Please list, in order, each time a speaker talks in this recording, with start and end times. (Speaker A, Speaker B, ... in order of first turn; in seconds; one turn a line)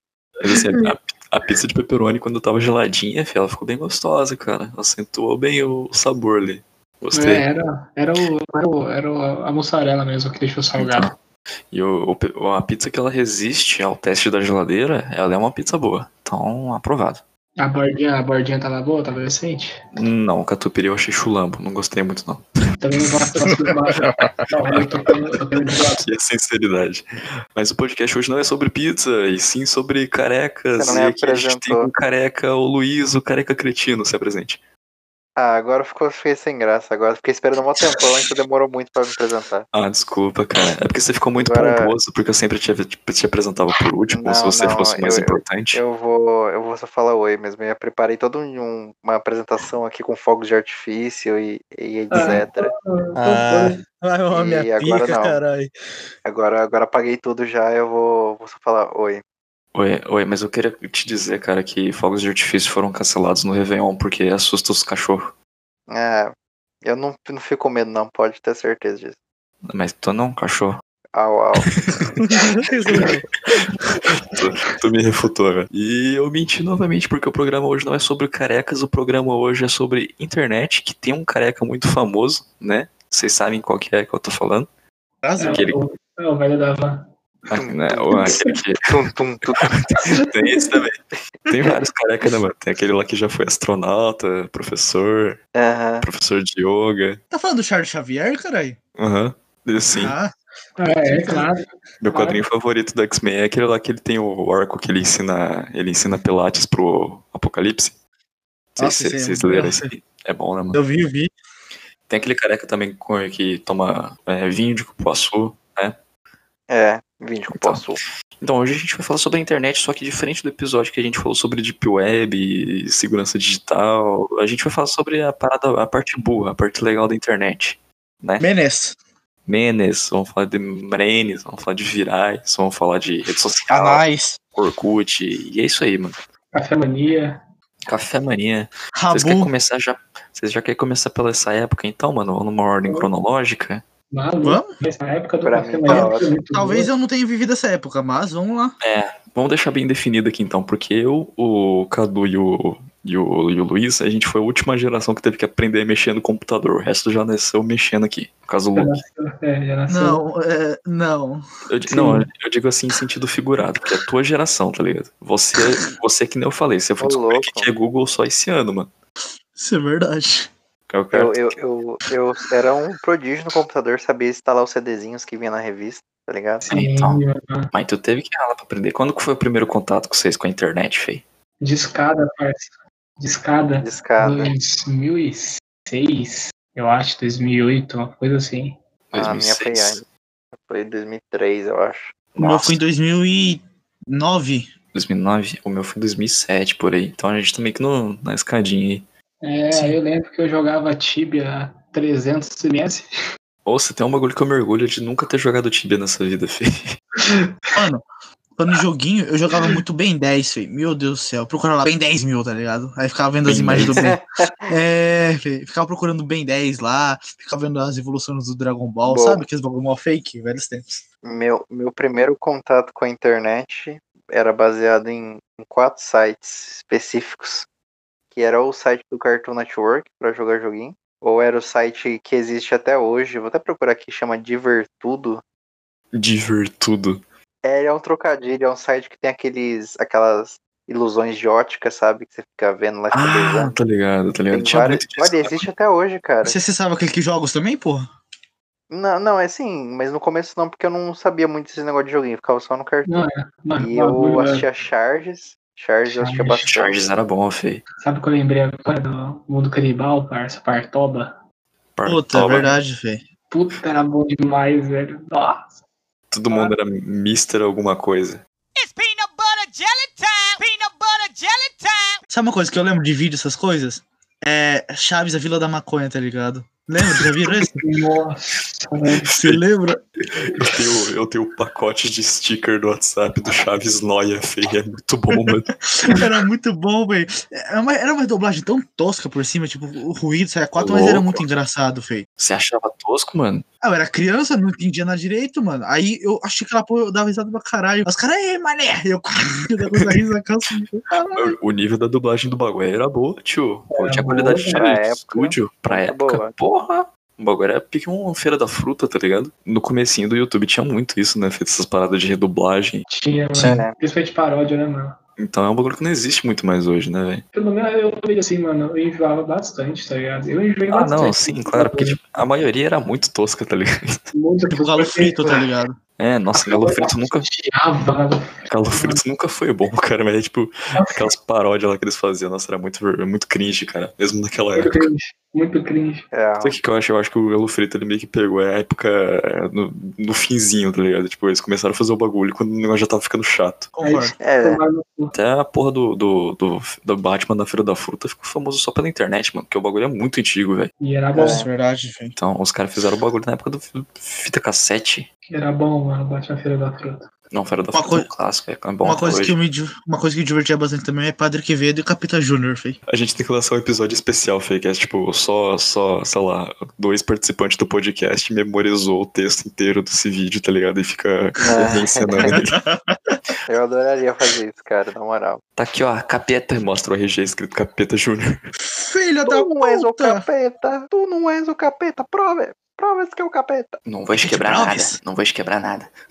Speaker A: 0.4-7.4
Speaker B: 7.1-11.1
Speaker A: 10.8-11.2
Speaker A: 11.7-17.2
Speaker B: 17.6-19.8
Speaker A: 19.9-22.5
Speaker B: 22.8-26.0
Speaker C: 23.6-24.3
Speaker A: 25.7-34.6
Speaker D: 30.8-31.9
Speaker D: 35.4-39.6
Speaker A: 39.7-45.8
Speaker D: 41.4-41.9
Speaker D: 44.1-52.7
Speaker B: 52.1-53.8
Speaker C: 53.2-55.7
Speaker D: 54.3-55.4
Speaker D: 56.2-59.2
Speaker A: 59.7-65.3
Speaker D: 65.9-66.3
Speaker D: 66.8-69.2
Speaker A: 69.6-70.8
Speaker D: 71.1-71.7
Speaker A: 71.7-72.2
Speaker C: 72.2-73.2
Speaker A: 72.9-73.1
Speaker A: 74.0-84.7
Speaker C: 85.2-85.7
Speaker B: 85.4-87.1
Speaker A: 85.5-85.8
Speaker A: 87.5-88.9
Speaker D: 87.5-89.7
Speaker B: 88.1-88.5
Speaker A: 89.6-95.4
Speaker B: 90.0-90.4
Speaker D: 95.5-96.0
Speaker A: 96.0-97.2
Speaker C: 97.3-98.8
Speaker A: 99.0-100.1
Speaker C: 99.9-100.3
Speaker B: 100.8-102.4
Speaker C: 101.0-101.5
Speaker A: 102.0-107.9
Speaker A: 108.8-110.8
Speaker C: 108.8-109.9
Speaker C: 110.7-111.3
Speaker A: 112.1-116.0
Speaker D: 116.7-118.0
Speaker A: 117.5-117.8
Speaker A: 118.4-128.5
Speaker C: 128.4-128.9
Speaker A: 129.5-136.2
Speaker C: 133.7-134.4
Speaker B: 136.5-137.4
Speaker A: 137.8-143.8
Speaker C: 138.9-139.5
Speaker B: 144.1-146.9
Speaker C: 144.4-144.8
Speaker D: 145.4-146.3
Speaker C: 145.9-148.7
Speaker A: 148.8-159.0
Speaker B: 158.7-160.2
Speaker C: 159.9-162.2
Speaker A: 161.7-168.9
Speaker D: 167.0-167.7
Speaker C: 169.6-170.5
Speaker A: 170.9-171.5
Speaker D: 171.1-176.6
Speaker A: 176.6-181.2
Speaker B: 176.7-177.7
Speaker B: 181.6-188.8
Speaker D: 183.8-184.5
Speaker A: 189.1-190.0
Speaker D: 189.1-190.0
Speaker D: 190.6-192.1
Speaker A: 192.3-192.8
Speaker C: 192.4-194.7
Speaker A: 194.9-199.0
Speaker B: 199.4-203.1
Speaker C: 199.7-200.0
Speaker A: 203.6-207.0
Speaker B: 207.2-207.7
Speaker C: 207.7-208.0
Speaker C: 208.6-221.0
Speaker A: 213.4-214.1
Speaker D: 213.9-214.5
Speaker D: 219.0-219.4
Speaker D: 221.2-227.7
Speaker D: 228.3-235.4
Speaker A: 236.1-237.2
Speaker D: 237.6-243.7
Speaker A: 243.1-245.7
Speaker D: 244.5-246.6
Speaker C: 246.4-248.1
Speaker D: 248.9-253.2
Speaker B: 253.0-254.6
Speaker D: 253.8-257.0
Speaker B: 256.1-256.7
Speaker A: 256.6-257.8
Speaker B: 258.0-261.4
Speaker A: 261.9-262.7
Speaker C: 262.0-263.2
Speaker B: 263.5-265.8
Speaker A: 266.3-268.4
Speaker E: 268.8-272.2
Speaker C: 272.3-277.8
Speaker B: 277.7-279.3
Speaker C: 279.3-280.0
Speaker A: 279.3-279.6
Speaker A: 280.2-286.2
Speaker C: 285.5-292.2
Speaker A: 290.8-291.4
Speaker A: 292.4-293.6
Speaker C: 293.8-301.6
Speaker A: 301.3-313.1
Speaker B: 303.9-304.9
Speaker D: 304.7-306.5
Speaker B: 313.1-315.2
Speaker C: 313.6-313.8
Speaker D: 313.6-313.9
Speaker A: 315.4-317.4
Speaker B: 317.5-322.2
Speaker A: 320.9-324.3
Speaker B: 324.3-325.6
Speaker C: 324.7-325.9
Speaker A: 326.2-327.5
Speaker B: 326.6-329.2
Speaker A: 328.7-335.1
Speaker B: 330.9-331.3
Speaker B: 334.8-336.3
Speaker D: 336.3-336.8
Speaker A: 336.6-343.9
Speaker C: 343.9-344.4
Speaker B: 344.0-345.3
Speaker D: 344.4-344.8
Speaker A: 345.3-350.9
Speaker B: 351.0-351.6
Speaker C: 351.3-352.3
Speaker D: 351.4-351.7
Speaker A: 352.4-355.3
Speaker B: 355.5-357.3
Speaker A: 357.5-359.6
Speaker C: 357.9-358.3
Speaker C: 359.0-363.0
Speaker A: 363.1-372.8
Speaker D: 371.6-372.5
Speaker C: 372.4-373.4
Speaker D: 373.7-375.6
Speaker A: 375.8-378.6
Speaker C: 378.8-380.4
Speaker D: 379.4-383.9
Speaker A: 384.1-386.1
Speaker C: 384.4-385.2